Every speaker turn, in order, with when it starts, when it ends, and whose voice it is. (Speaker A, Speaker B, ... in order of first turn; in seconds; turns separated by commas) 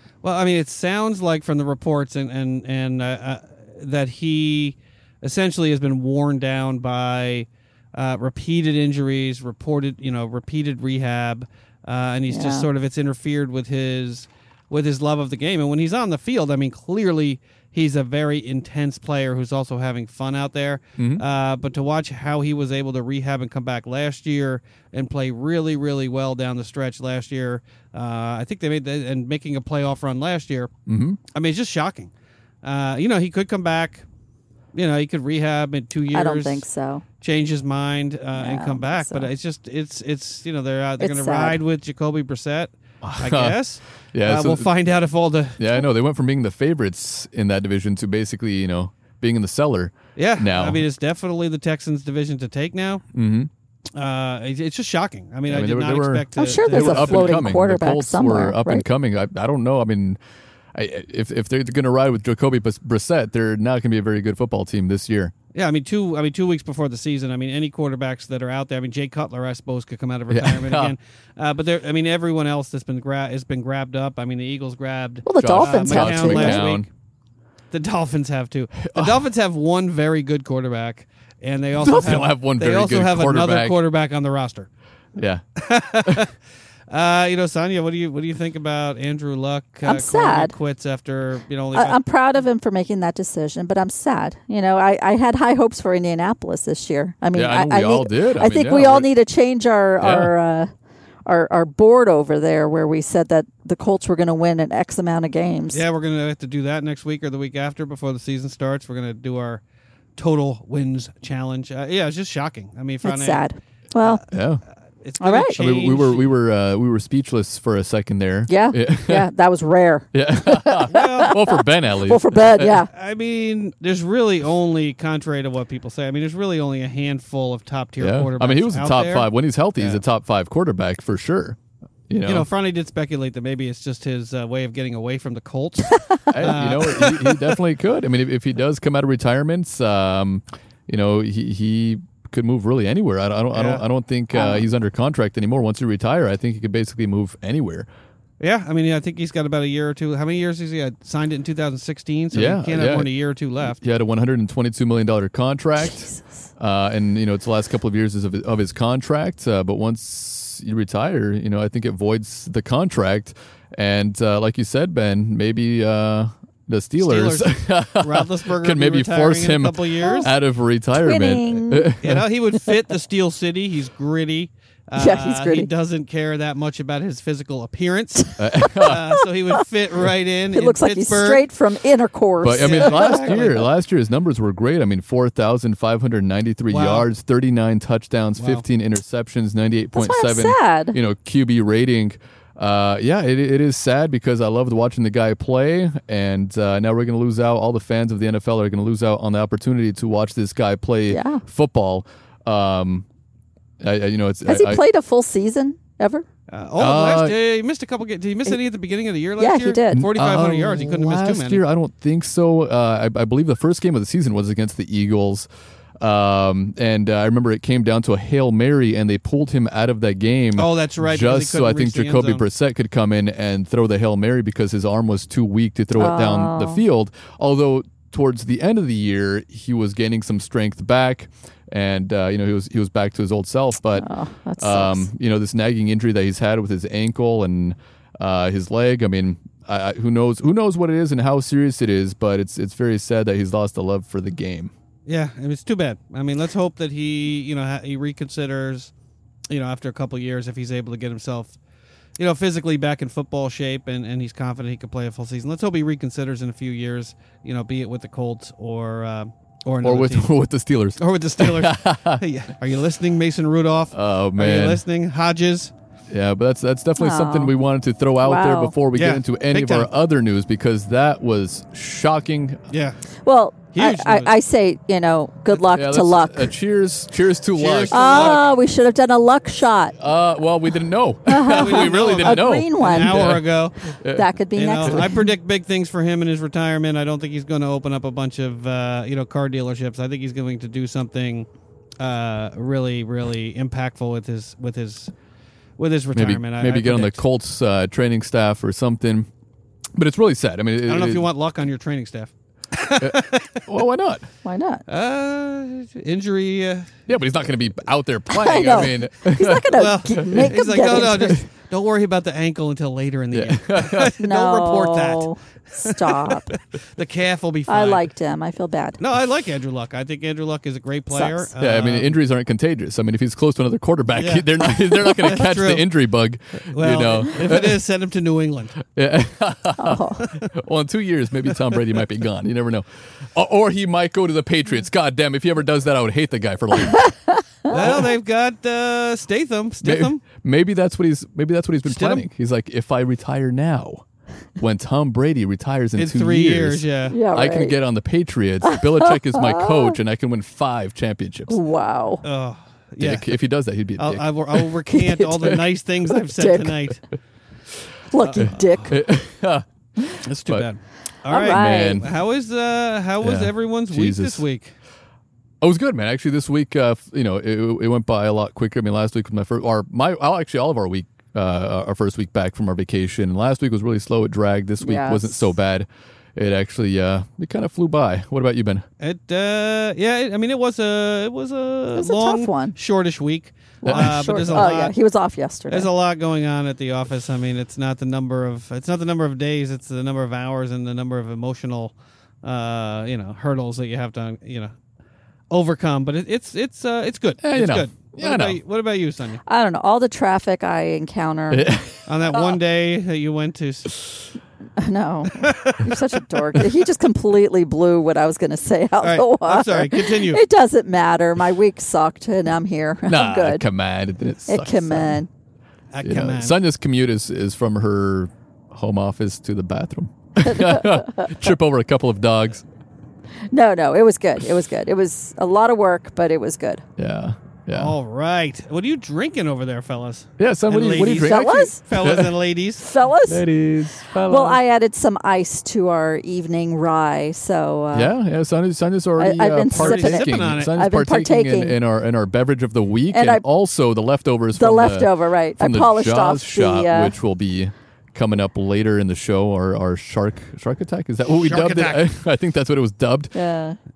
Speaker A: 0.2-30.7, Speaker B: 12.3-12.7, Speaker C: 21.0-21.2, Speaker C: 30.9-31.2, Speaker A: 31.3-32.1, Speaker A: 32.6-34.0, Speaker A: 34.7-36.6, Speaker B: 36.1-37.0, Speaker A: 37.2-45.7, Speaker B: 38.4-39.3, Speaker B: 41.0-41.6, Speaker C: 43.0-43.6, Speaker C: 44.1-44.7, Speaker C: 45.6-50.8, Speaker A: 50.1-53.0, Speaker C: 53.1-53.5, Speaker A: 53.9-57.4, Speaker C: 55.5-60.2, Speaker B: 56.4-58.8, Speaker C: 60.7-65.3, Speaker A: 65.5-76.8, Speaker C: 70.3-70.9, Speaker B: 75.2-76.6, Speaker C: 75.4-76.9, Speaker A: 77.7-84.7, Speaker C: 78.8-79.2, Speaker C: 81.8-83.8, Speaker C: 85.2-85.4, Speaker A: 85.6-86.3, Speaker A: 86.9-92.0, Speaker B: 89.8-90.5, Speaker B: 91.7-100.7, Speaker C: 97.3-99.1, Speaker C: 100.0-100.3, Speaker B: 101.2-105.8, Speaker A: 105.7-109.6, Speaker A: 110.2-113.4, Speaker B: 113.0-114.2, Speaker C: 114.3-114.6, Speaker A: 115.0-116.3, Speaker B: 115.2-115.5, Speaker C: 115.5-119.2, Speaker B: 118.5-122.9, Speaker C: 120.1-122.8, Speaker A: 120.9-121.3, Speaker A: 122.9-130.0, Speaker C: 128.0-131.6, Speaker C: 132.1-132.5, Speaker A: 132.2-137.2, Speaker B: 135.9-136.2, Speaker C: 136.3-147.9, Speaker A: 143.5-143.8, Speaker B: 144.3-144.6, Speaker A: 148.4-153.8, Speaker C: 152.3-153.1, Speaker C: 153.7-172.2, Speaker A: 167.0-170.3, Speaker B: 170.0-170.3, Speaker B: 170.9-171.9, Speaker A: 172.0-181.4, Speaker B: 174.9-175.7, Speaker C: 178.4-179.1, Speaker B: 178.6-179.2, Speaker B: 180.5-183.4, Speaker C: 182.4-203.1, Speaker A: 182.5-183.6, Speaker A: 186.7-187.1, Speaker A: 188.4-188.6, Speaker B: 189.9-190.9, Speaker B: 201.1-201.4, Speaker C: 203.8-204.8, Speaker B: 204.4-206.2, Speaker A: 206.5-211.6, Speaker C: 206.8-207.3, Speaker B: 209.4-210.1, Speaker C: 209.9-215.5, Speaker C: 216.0-234.1, Speaker A: 220.6-222.4, Speaker B: 225.9-226.8, Speaker B: 234.0-235.1, Speaker C: 234.6-244.7, Speaker A: 245.1-248.9, Speaker A: 249.5-251.6, Speaker A: 252.2-260.3, Speaker C: 259.8-262.2, Speaker A: 261.0-265.7, Speaker C: 263.9-264.8, Speaker C: 266.1-272.6, Speaker B: 267.0-267.5, Speaker B: 268.2-268.7, Speaker A: 268.9-269.9, Speaker A: 272.7-273.0, Speaker B: 273.2-276.5, Speaker A: 273.7-274.3, Speaker C: 275.5-278.4, Speaker A: 277.5-278.4, Speaker B: 277.9-279.9, Speaker C: 280.0-284.3, Speaker B: 281.3-283.3, Speaker A: 281.5-283.7, Speaker B: 284.1-285.3, Speaker A: 284.5-291.5, Speaker C: 284.8-285.1, Speaker A: 292.0-295.1, Speaker A: 295.8-297.2, Speaker C: 296.1-299.3, Speaker C: 299.9-301.2, Speaker A: 300.9-303.6, Speaker C: 303.0-304.3, Speaker B: 304.4-304.8, Speaker A: 304.9-307.0, Speaker C: 307.1-310.6, Speaker B: 308.3-311.4, Speaker A: 309.7-315.3, Speaker C: 313.3-314.1, Speaker B: 314.2-316.5, Speaker A: 315.8-318.0, Speaker B: 317.7-319.0, Speaker A: 319.0-322.2, Speaker B: 321.1-321.5, Speaker C: 321.6-327.8, Speaker A: 324.1-325.9, Speaker A: 326.7-328.8, Speaker C: 328.9-337.1, Speaker B: 329.8-330.2, Speaker A: 330.2-330.5, Speaker B: 336.9-337.7, Speaker C: 337.7-338.1, Speaker A: 337.7-340.2, Speaker C: 339.8-344.0, Speaker A: 341.9-342.2, Speaker C: 344.6-351.6, Speaker A: 346.0-347.1, Speaker B: 347.1-347.8, Speaker B: 348.6-350.0, Speaker B: 351.5-352.2, Speaker A: 352.2-353.2, Speaker C: 353.0-354.7, Speaker A: 354.0-357.0, Speaker B: 354.9-355.5, Speaker B: 356.3-356.8, Speaker B: 358.1-358.9, Speaker A: 358.2-358.9, Speaker C: 358.4-359.6, Speaker A: 360.2-364.7, Speaker B: 361.3-362.0, Speaker C: 361.4-362.1, Speaker C: 363.2-364.4, Speaker C: 365.6-378.8, Speaker B: 374.8-375.5, Speaker A: 379.0-384.9, Speaker B: 382.0-382.7, Speaker B: 383.8-385.9, Speaker C: 383.9-384.7, Speaker A: 385.7-394.7, Speaker A: 395.5-399.4, Speaker C: 397.4-398.6, Speaker B: 399.4-401.7, Speaker C: 401.5-402.1, Speaker A: 402.1-404.0, Speaker B: 404.8-413.6, Speaker A: 405.4-405.9, Speaker A: 409.0-410.4, Speaker C: 413.1-415.2, Speaker B: 414.5-415.3, Speaker A: 415.9-416.6, Speaker C: 416.0-422.6, Speaker B: 420.4-421.3, Speaker B: 423.5-426.8, Speaker C: 427.0-427.9, Speaker A: 427.7-432.9, Speaker C: 430.4-432.3, Speaker B: 431.2-431.8, Speaker B: 432.8-433.4, Speaker C: 433.3-434.6, Speaker B: 434.3-438.1, Speaker C: 437.9-453.3, Speaker B: 439.2-441.8, Speaker A: 439.7-440.8, Speaker B: 443.1-443.4, Speaker B: 444.5-447.1, Speaker A: 451.4-452.0, Speaker B: 453.3-453.8